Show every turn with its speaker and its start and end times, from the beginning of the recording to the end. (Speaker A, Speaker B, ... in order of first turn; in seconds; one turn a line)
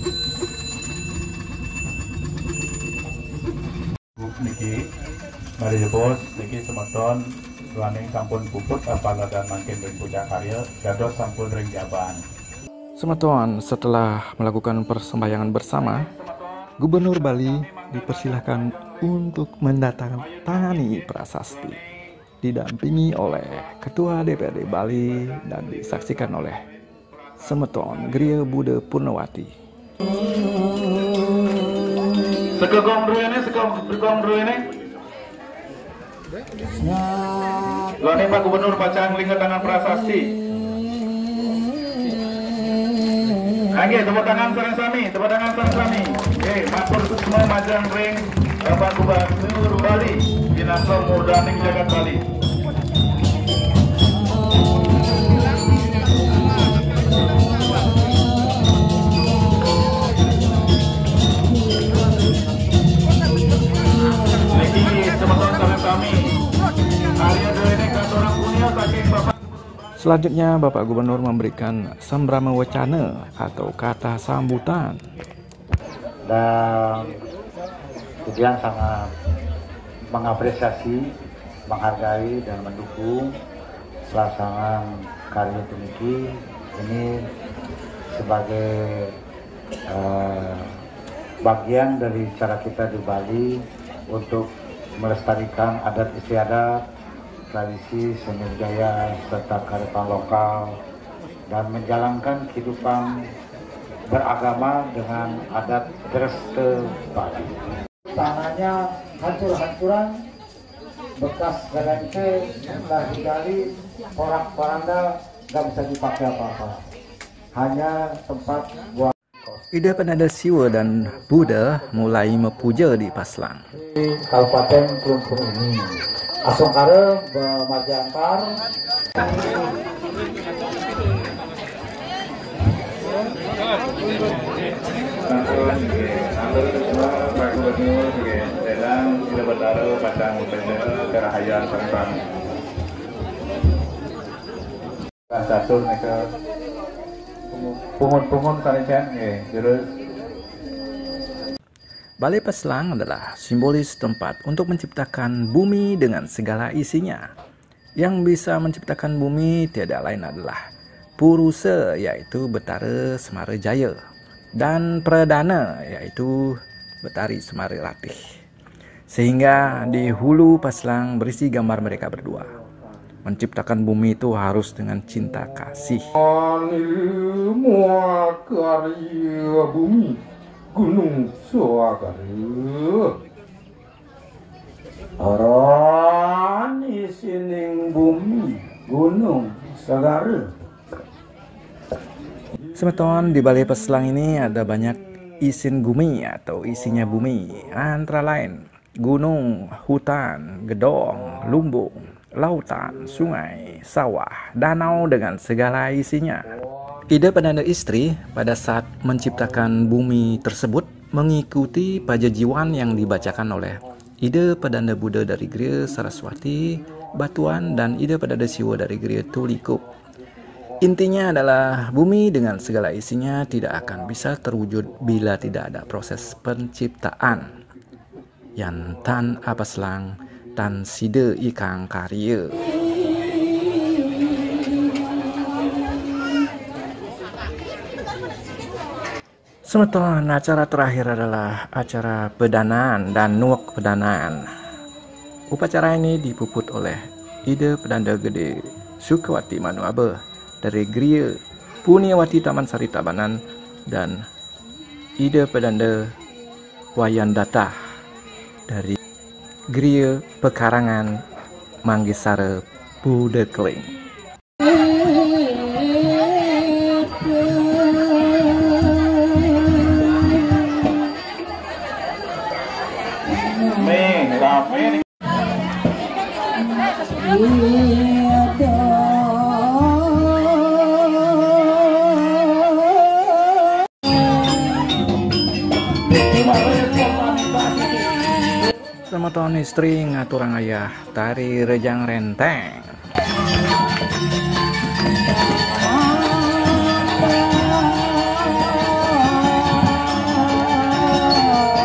Speaker A: 4.2-4.8
Speaker A: 5.6-12.2
Speaker B: 13.0-16.1
Speaker B: 16.8-21.8
Speaker B: 22.4-26.6
Speaker B: 27.4-29.5
Speaker A: 32.5-34.7
Speaker A: 38.0-40.4
Speaker A: 43.7-52.2
Speaker A: 64.5-66.3
Speaker A: 67.2-69.3
Speaker B: 70.0-75.0
Speaker C: 76.3-77.1
Speaker C: 78.3-79.0
Speaker C: 80.1-81.0
Speaker C: 81.7-83.3
Speaker C: 84.1-86.2
Speaker C: 86.8-87.1
Speaker C: 88.2-89.1
Speaker C: 89.9-90.7
Speaker C: 91.4-93.6
Speaker C: 94.1-94.5
Speaker C: 95.0-96.8
Speaker C: 97.5-100.8
Speaker C: 101.5-103.1
Speaker C: 104.1-107.5
Speaker C: 108.1-110.1
Speaker C: 111.2-113.6
Speaker C: 114.2-116.8
Speaker C: 117.5-119.6
Speaker B: 119.7-123.7
Speaker C: 123.8-128.6
Speaker A: 135.2-142.2
Speaker A: 145.3-146.2
Speaker A: 147.5-149.9
Speaker B: 152.2-157.3
Speaker B: 158.0-160.6
Speaker B: 161.2-164.0
Speaker B: 164.6-168.2
Speaker B: 169.1-172.5
Speaker B: 173.2-176.1
Speaker D: 176.2-180.2
Speaker D: 180.7-183.1
Speaker D: 185.2-190.5
Speaker B: 192.8-206.5
Speaker B: 207.1-219.8
Speaker B: 220.8-227.6
Speaker B: 228.6-232.7
Speaker B: 239.7-244.5
Speaker B: 245.5-254.2
Speaker B: 255.2-256.1
Speaker B: 257.0-257.8
Speaker B: 258.7-259.0
Speaker B: 259.7-261.2
Speaker B: 261.9-263.9
Speaker A: 273.7-275.0
Speaker A: 286.3-288.1
Speaker B: 289.1-293.0